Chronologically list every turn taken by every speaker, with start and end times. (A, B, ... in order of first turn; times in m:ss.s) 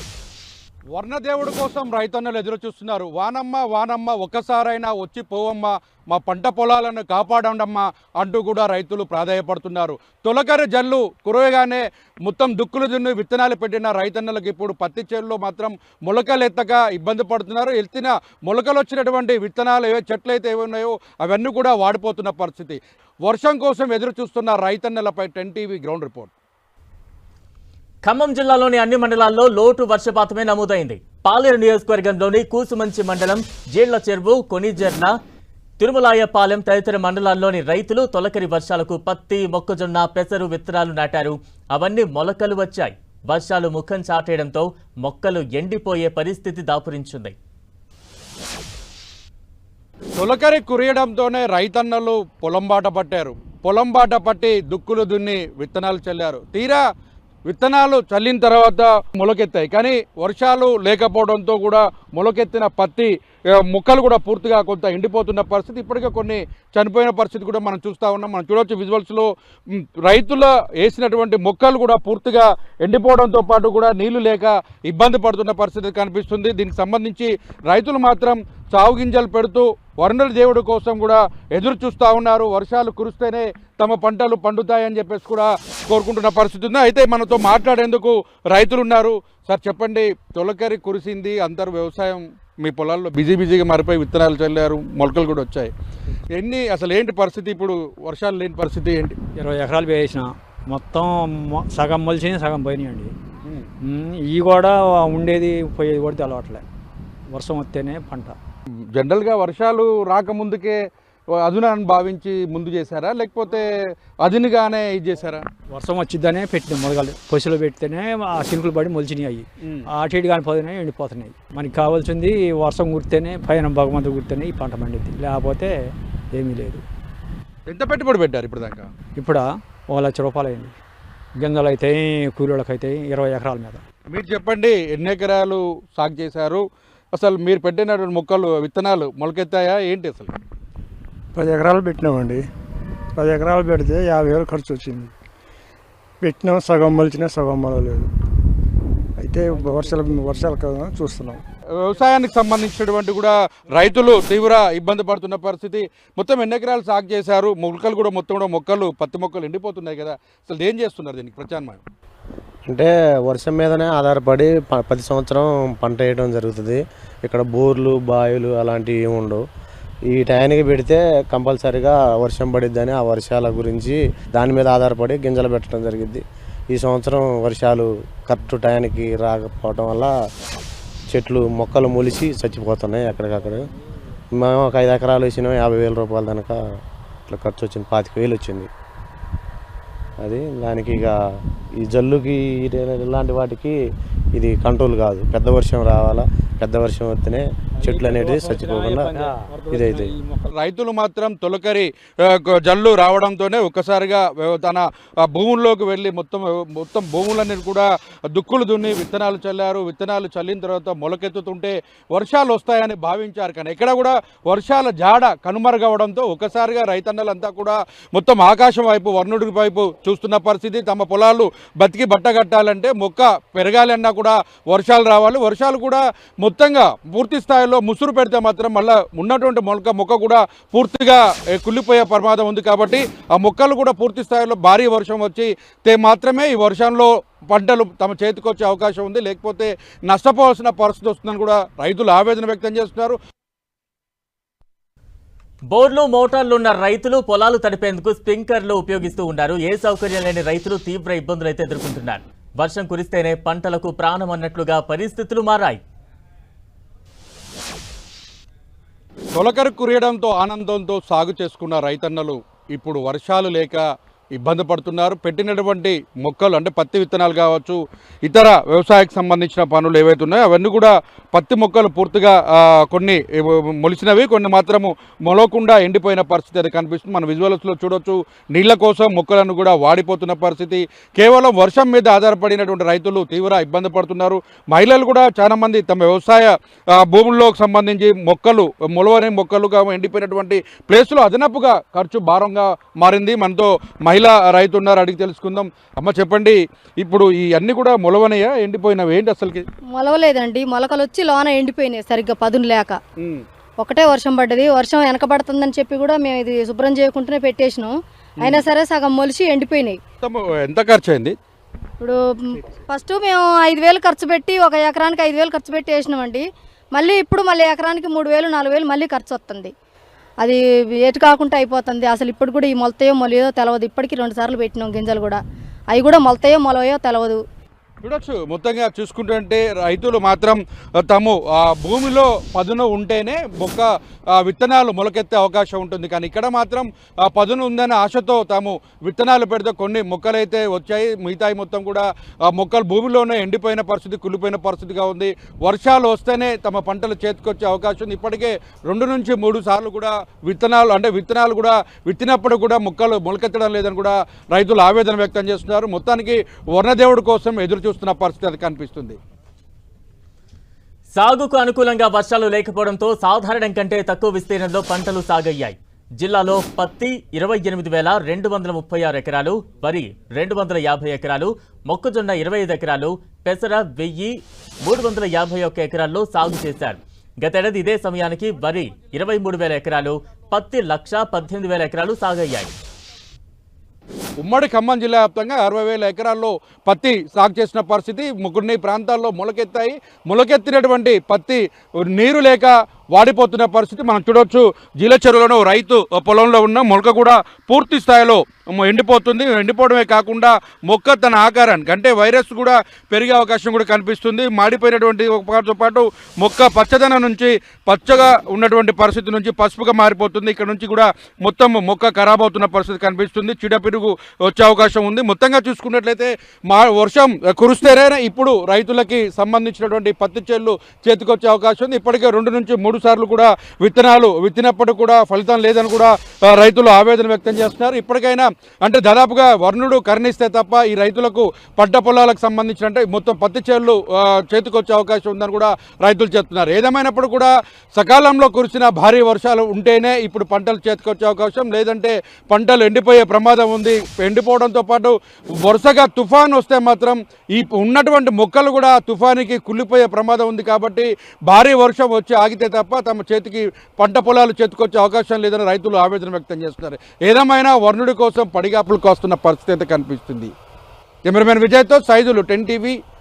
0:00.9-0:26.3 A
0:28.0-0:35.1 B
0:35.8-0:47.4 B
0:50.2-0:56.8 A
0:57.5-1:35.7 A
1:36.3-1:39.2 A
1:39.4-1:43.1 C
1:43.8-1:46.6 C
1:47.3-1:48.4 C
1:48.7-1:50.8 A
1:51.4-1:53.7 A
1:54.2-1:55.4 A
1:55.7-2:05.8 C
2:06.4-2:06.8 C
2:07.7-2:08.9 A
2:09.2-2:10.8 C
2:11.4-2:13.8 C
2:14.1-2:16.6 A
2:17.2-2:20.3 A
2:21.4-2:22.4 D
2:23.2-2:25.1 D
2:26.2-2:28.1 D
2:29.2-2:31.4 D
2:29.6-2:30.0 C
2:31.8-2:41.8 A
2:42.7-2:49.4 E
2:50.1-3:00.1 E
3:01.1-3:03.7 E
3:04.3-3:06.6 E
3:07.3-3:08.7 E
3:10.2-3:11.2 E
3:11.8-3:13.8 E
3:14.4-3:19.1 E
3:17.8-3:20.5 C
3:19.7-3:20.2 E
3:20.5-4:03.2 A
4:05.7-4:15.8 B
4:19.4-4:23.8 A
4:24.4-4:59.6 A
4:59.9-5:03.0 F
5:03.2-5:03.4 A
5:03.8-5:10.0 F
5:08.4-5:08.7 A
5:10.2-5:11.4 A
5:12.0-5:19.7 F
5:20.4-5:25.4 F
5:25.9-5:27.4 F
5:28.0-5:59.2 A
6:01.2-6:22.7 B
6:24.4-7:40.5 A
7:41.3-7:43.0 A